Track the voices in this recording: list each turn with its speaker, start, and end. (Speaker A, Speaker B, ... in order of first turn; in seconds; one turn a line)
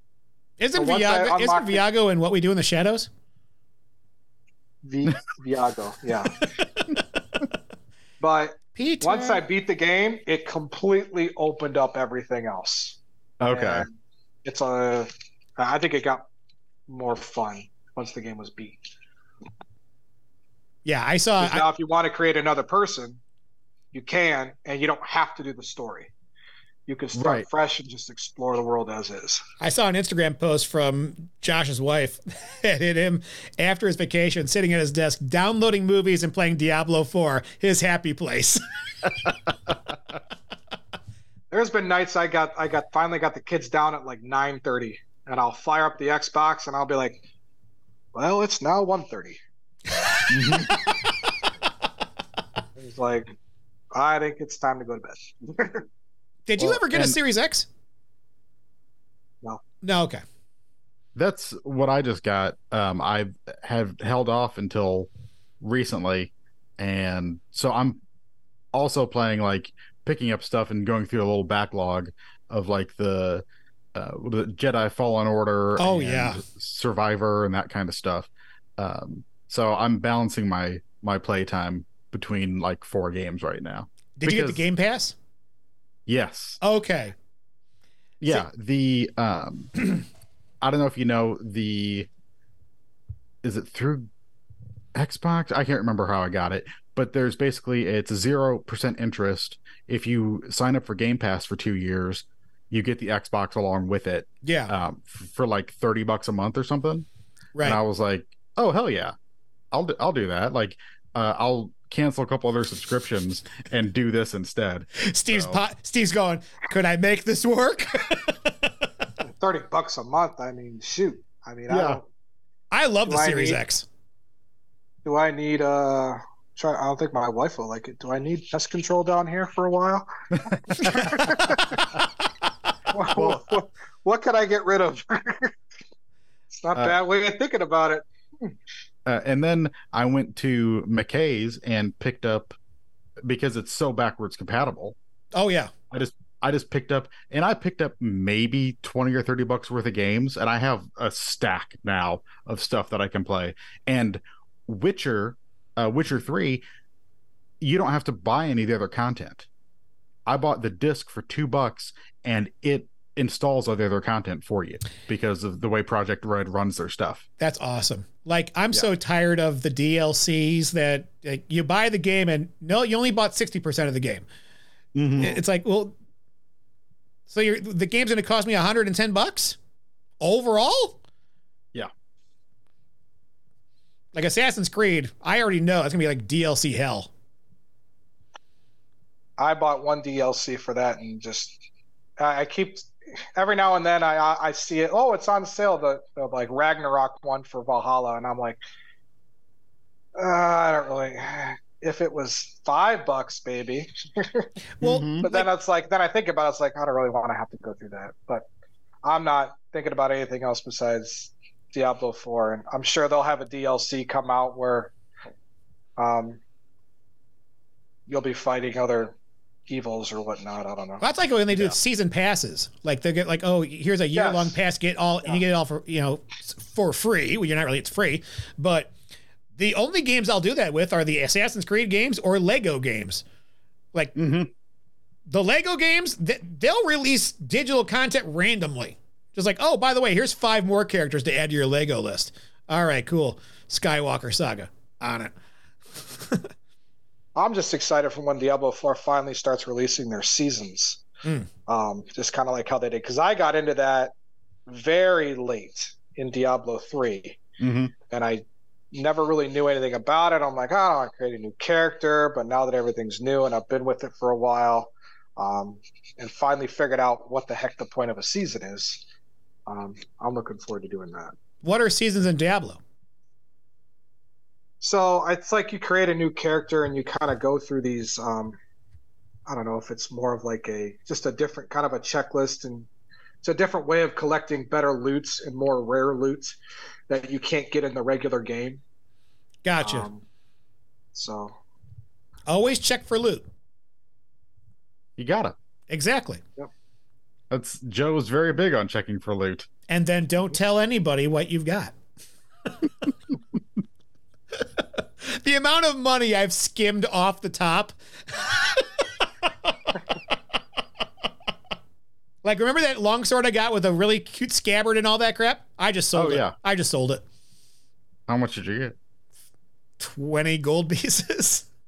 Speaker A: 0.6-3.1
Speaker B: 0.8-1.8
Speaker B: 4.8-6.4
Speaker B: 8.2-13.0
Speaker A: 8.8-9.4
Speaker C: 13.4-13.9
Speaker B: 13.5-13.9
Speaker B: 14.4-16.3
Speaker B: 16.9-18.8
Speaker A: 20.8-21.7
Speaker B: 21.4-23.2
Speaker B: 23.9-26.1
Speaker B: 26.9-29.4
Speaker C: 27.1-27.4
Speaker A: 29.6-39.1
Speaker B: 41.5-47.2
Speaker B: 48.1-49.4
Speaker A: 50.0-51.3
Speaker C: 50.3-50.7
Speaker B: 52.8-53.3
Speaker B: 53.9-55.8
Speaker A: 56.5-57.7
Speaker C: 56.6-57.2
Speaker A: 59.8-60.2
Speaker C: 61.1-65.1
Speaker C: 65.6-68.0
Speaker C: 68.7-84.6
Speaker A: 75.8-76.4
Speaker A: 84.2-85.2
Speaker C: 86.1-86.6
Speaker A: 86.6-87.1
Speaker C: 88.2-89.8
Speaker C: 90.6-92.1
Speaker C: 93.4-94.1
Speaker C: 94.9-107.1
Speaker A: 104.4-104.7
Speaker A: 107.5-107.8
Speaker C: 107.6-109.1
Speaker C: 109.7-115.6
Speaker A: 115.0-118.7
Speaker B: 119.4-122.1
Speaker C: 121.7-122.0
Speaker A: 122.7-123.9
Speaker B: 123.1-123.6
Speaker B: 125.0-130.1
Speaker B: 130.7-131.8
Speaker A: 130.7-131.6
Speaker B: 132.9-135.5
Speaker C: 133.1-133.4
Speaker B: 136.5-138.5
Speaker C: 139.1-142.6
Speaker C: 143.2-144.9
Speaker A: 145.3-145.7
Speaker C: 145.9-156.6
Speaker C: 157.6-159.5
Speaker C: 160.3-167.2
Speaker A: 167.4-174.2
Speaker C: 174.9-175.4
Speaker A: 175.2-175.9
Speaker A: 177.3-179.6
Speaker A: 180.2-181.0
Speaker A: 184.1-187.1
Speaker B: 189.4-191.6
Speaker B: 192.2-198.6
Speaker B: 200.2-204.5
Speaker A: 204.8-205.5
Speaker C: 204.8-205.2
Speaker B: 205.2-208.5
Speaker B: 209.0-214.9
Speaker B: 216.0-216.4
Speaker B: 218.1-219.2
Speaker B: 219.7-221.0
Speaker A: 221.0-228.9
Speaker B: 224.1-224.6
Speaker A: 229.6-233.2
Speaker C: 234.2-234.5
Speaker A: 235.3-245.3
Speaker A: 246.2-246.5
Speaker B: 247.4-251.0
Speaker B: 251.7-254.1
Speaker B: 254.7-257.4
Speaker C: 257.6-257.9
Speaker B: 258.1-269.0
Speaker B: 269.7-271.3
Speaker A: 271.6-272.8
Speaker B: 274.8-278.6
Speaker B: 279.5-282.9
Speaker B: 283.4-286.6
Speaker B: 287.1-288.8
Speaker A: 289.6-290.1
Speaker B: 289.8-290.2
Speaker B: 291.1-291.5
Speaker A: 292.5-293.5
Speaker C: 295.2-295.5
Speaker A: 295.9-296.4
Speaker C: 297.5-299.7
Speaker A: 299.9-301.9
Speaker A: 305.2-309.0
Speaker A: 309.7-310.0
Speaker A: 312.4-317.2
Speaker C: 316.1-316.5
Speaker C: 318.3-319.0
Speaker A: 320.0-321.7